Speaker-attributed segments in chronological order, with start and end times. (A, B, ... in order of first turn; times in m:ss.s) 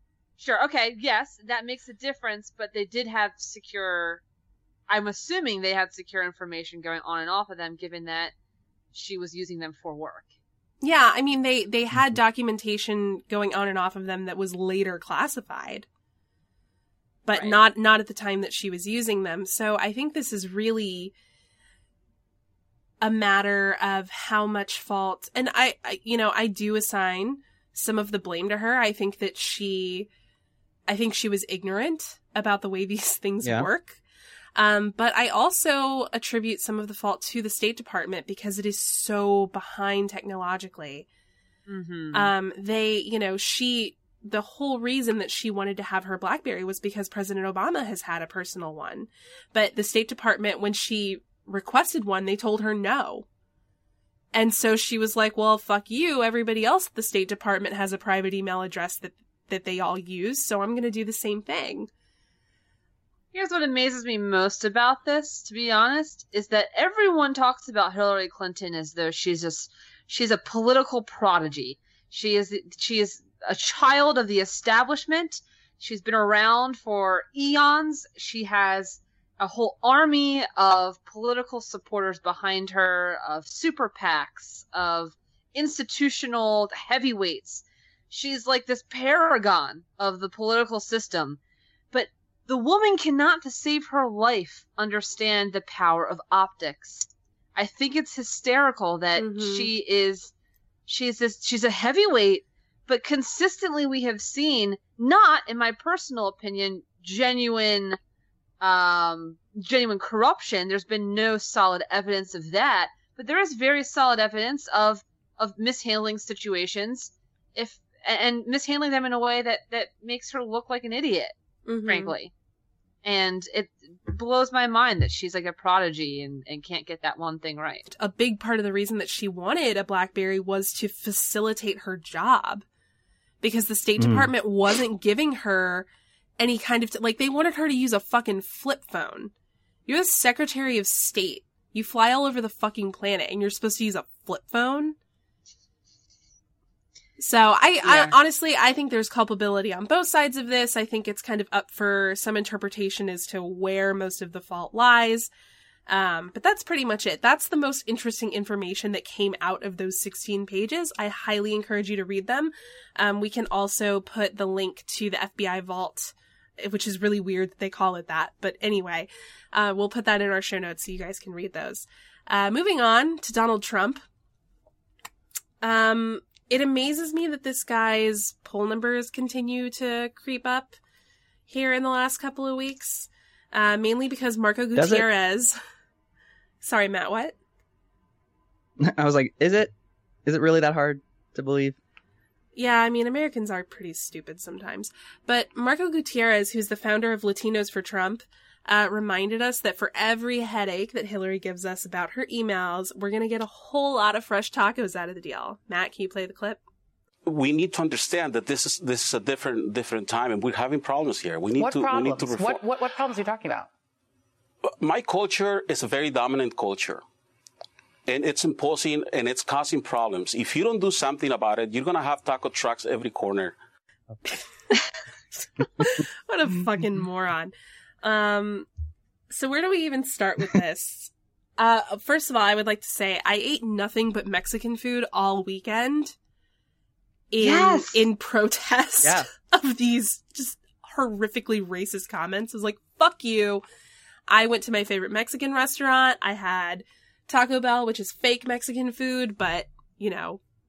0:00.4-0:04.2 A
0:04.9-0:08.3 A
0:08.9-0:10.3 A
0:10.8-0:15.9 B
0:17.2-0:21.1 B
0:23.0-0:30.1 B
0:30.9-0:34.0 B
0:33.4-0:33.7 C
0:34.6-0:41.1 B
0:41.7-0:42.3 A
0:42.1-0:53.3 B
0:54.3-1:01.9 B
1:03.3-1:31.4 A
1:31.9-1:40.3 A
1:39.2-1:39.7 B
1:40.9-1:48.0 A
1:48.6-2:01.4 A
2:01.7-2:02.2 B
2:01.9-2:02.3 A
2:03.0-2:07.8 A
2:07.9-2:12.6 B
2:13.4-2:15.9 B
2:14.0-2:14.3 C
2:16.4-2:19.3 B
2:19.9-2:25.0 B
2:27.2-2:35.3 B
2:27.8-2:28.2 A
2:35.9-2:54.0 B
2:55.6-3:00.8 B
3:01.5-3:05.6 B
3:04.8-3:05.1 C
3:06.6-3:07.4 B
3:08.8-3:09.7 C
3:10.3-3:11.8 C
3:12.6-3:26.6 B
3:27.3-3:32.7 D
3:31.6-3:33.7 E
3:34.7-3:37.0 D
3:38.1-3:43.6 D
3:45.8-3:48.7 B
3:49.3-3:56.2 B
3:57.3-4:03.6 B
3:57.4-3:58.1 A
3:59.0-3:59.3 C
4:04.3-4:10.4 B